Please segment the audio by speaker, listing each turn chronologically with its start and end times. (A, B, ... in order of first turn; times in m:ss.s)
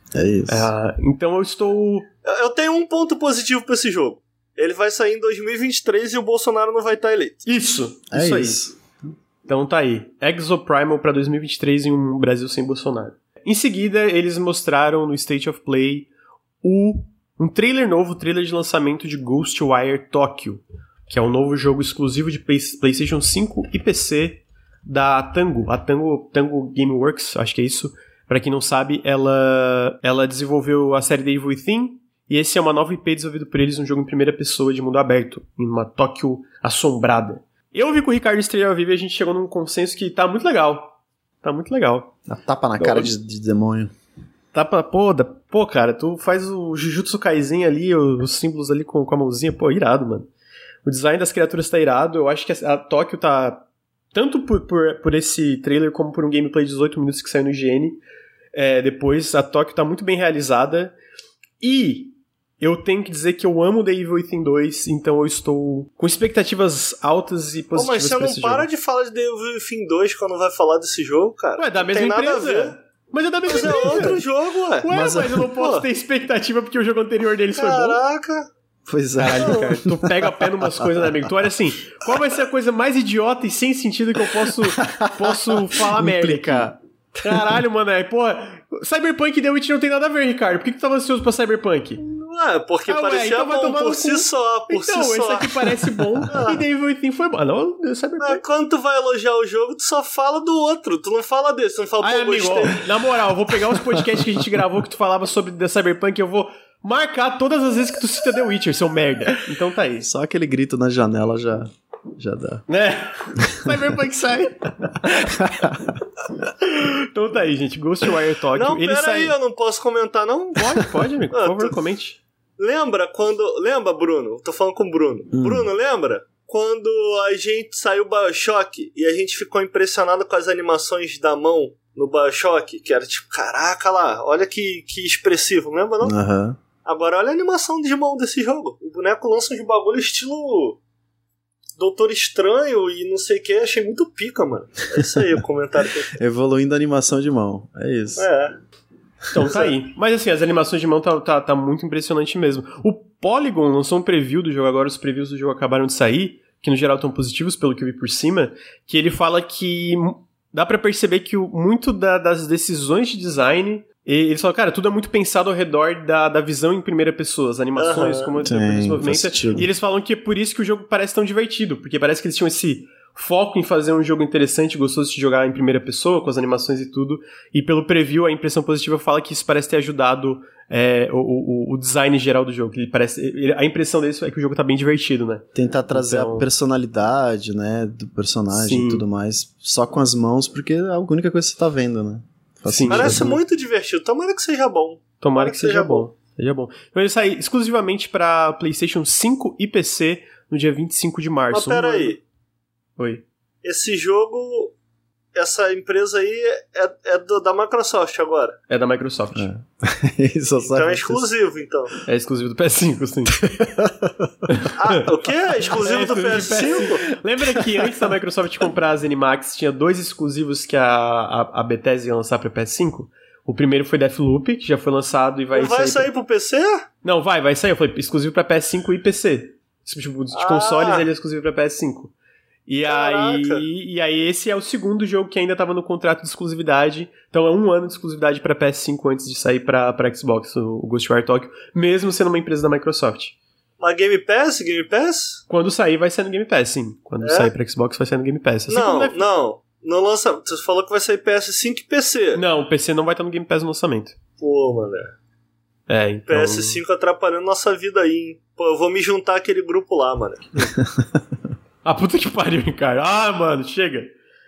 0:00.1-0:00.7 A
0:00.5-0:02.1 B
0:02.2-0:07.4 C
0:07.5-0:08.6 B
0:08.1-0:08.8 A
0:09.5-0:16.1 B
0:16.6-0:42.1 B
0:42.3-0:43.9 A
0:42.8-0:43.1 B
0:44.5-0:50.3 B
0:50.8-0:58.0 B
0:58.5-1:01.0 B
1:01.6-1:08.7 B
1:07.8-1:12.8 C
1:11.6-1:14.2 B
1:13.5-1:15.9 C
1:14.8-1:18.0 B
1:14.9-1:15.5 A
1:17.6-1:18.5 C
1:18.9-1:21.3 A
1:19.2-1:32.0 B
1:19.4-1:19.7 C
1:24.8-1:27.5 A
1:32.0-1:35.8 C
1:32.9-1:38.4 B
1:36.3-1:36.6 C
1:38.2-1:42.9 C
1:42.0-1:50.1 B
1:50.0-1:52.6 A
1:52.7-1:55.4 B
1:55.0-1:56.0 A
1:56.6-1:59.4 B
1:58.6-2:00.8 C
2:00.6-2:02.2 B
2:01.3-2:01.8 C
2:02.6-2:16.2 C
2:05.3-2:05.7 A
2:16.0-2:16.6 A
2:16.8-2:20.8 C
2:21.8-2:26.2 C
2:26.2-2:28.3 A
2:28.2-2:28.6 C
2:29.3-3:06.5 B
2:47.8-2:48.4 C
2:48.4-2:49.7 A
3:05.6-3:13.4 A
3:08.5-3:09.0 B
3:12.7-3:13.4 B
3:12.9-3:16.1 C
3:15.2-3:22.2 B
3:21.5-3:22.2 C
3:23.0-3:23.2 B
3:23.6-3:24.8 C
3:25.4-3:28.6 C
3:28.7-3:29.5 B
3:29.4-3:31.3 A
3:30.7-3:31.9 C
3:32.1-3:33.6 B
3:33.5-3:34.5 A
3:34.5-3:35.0 B
3:34.8-3:37.0 C
3:35.7-3:46.1 B
3:45.5-3:46.8 C
3:47.0-3:52.1 B
3:50.3-3:51.1 C
3:52.7-4:03.4 B
3:52.8-3:53.6 C
4:03.8-4:05.4 C
4:05.5-4:09.2 B
4:07.2-4:07.5 C
4:08.7-4:12.4 C
4:12.4-4:14.2 B
4:14.4-4:15.1 C
4:15.9-4:16.8 B
4:16.3-4:20.5 C
4:20.8-4:21.1 A
4:21.8-4:24.1 B